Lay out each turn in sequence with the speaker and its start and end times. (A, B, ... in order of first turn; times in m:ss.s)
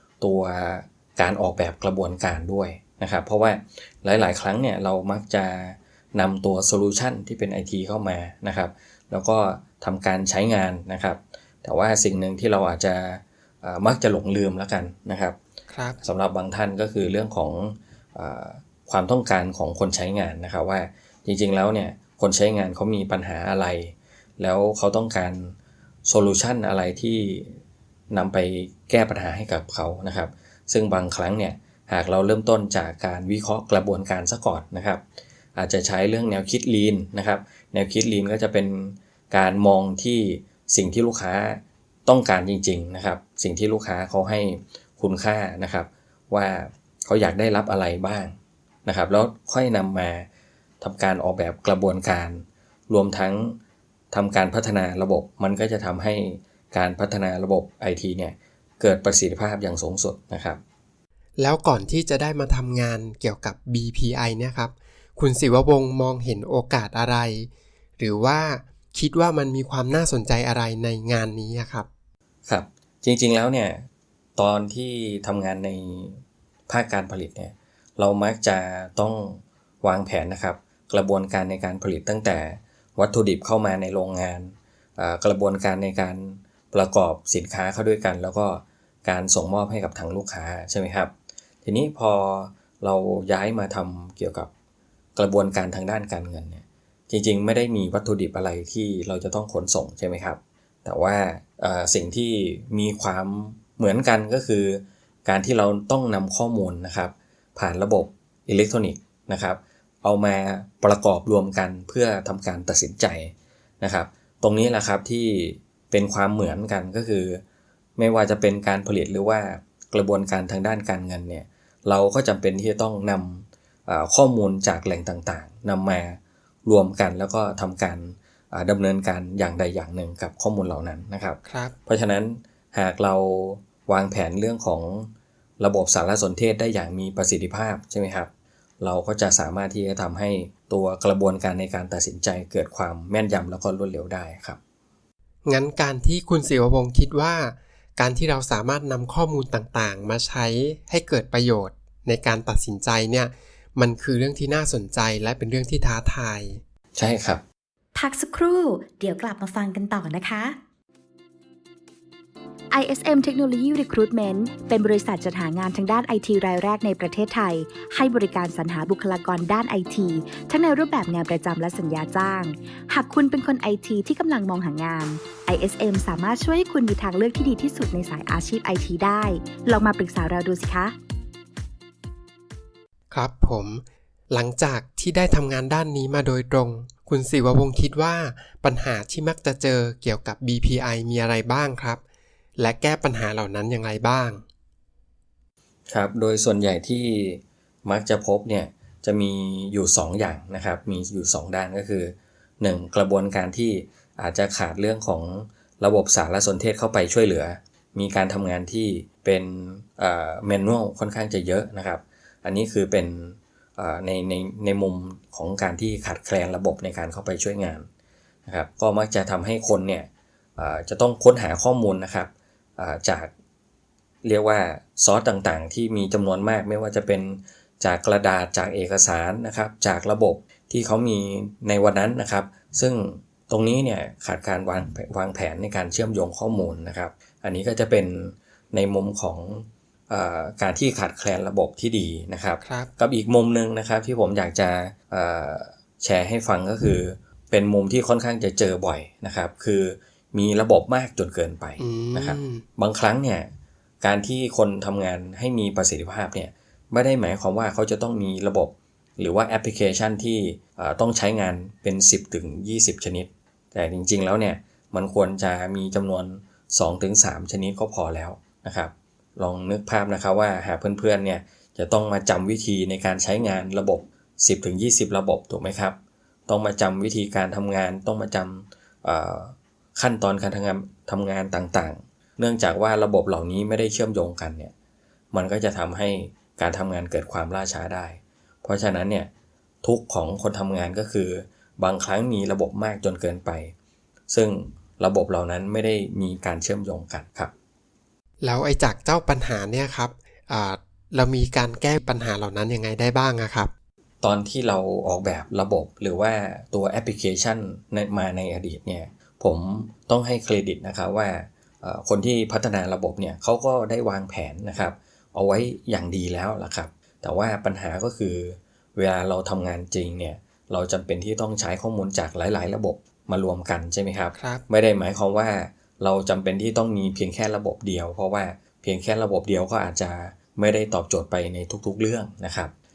0:00.2-0:15.4 A
0:15.7-0:16.0 B
0:16.0-0:25.6 A
0:26.1-0:27.6 A
0:28.1-0:35.0 A
0:35.6-0:48.4 A
0:48.9-0:50.3 A
0:50.8-0:53.6 A
0:54.1-1:00.6 A
1:01.4-1:11.9 B
1:12.5-1:31.1 A
1:31.6-1:34.5 A
1:35.2-1:57.4 A
1:58.0-2:18.3 A
2:11.4-2:11.7 B
2:18.8-2:24.6 A
2:25.5-2:36.6 B
2:37.0-2:37.4 A
2:38.0-2:40.6 C
2:42.7-3:01.0 C
3:03.1-3:12.0 B
3:12.6-3:14.4 B
3:15.9-3:37.9 A
3:38.5-3:43.3 A
3:44.2-4:13.5 A
4:02.6-4:02.9 B
4:11.8-4:12.6 B
4:14.0-4:36.0 A
4:36.5-4:44.7 A
4:45.3-4:49.3 A
4:49.8-4:53.8 A
4:54.3-4:57.5 A
4:58.4-5:03.7 B
5:04.2-5:32.7 A
5:24.4-5:24.6 B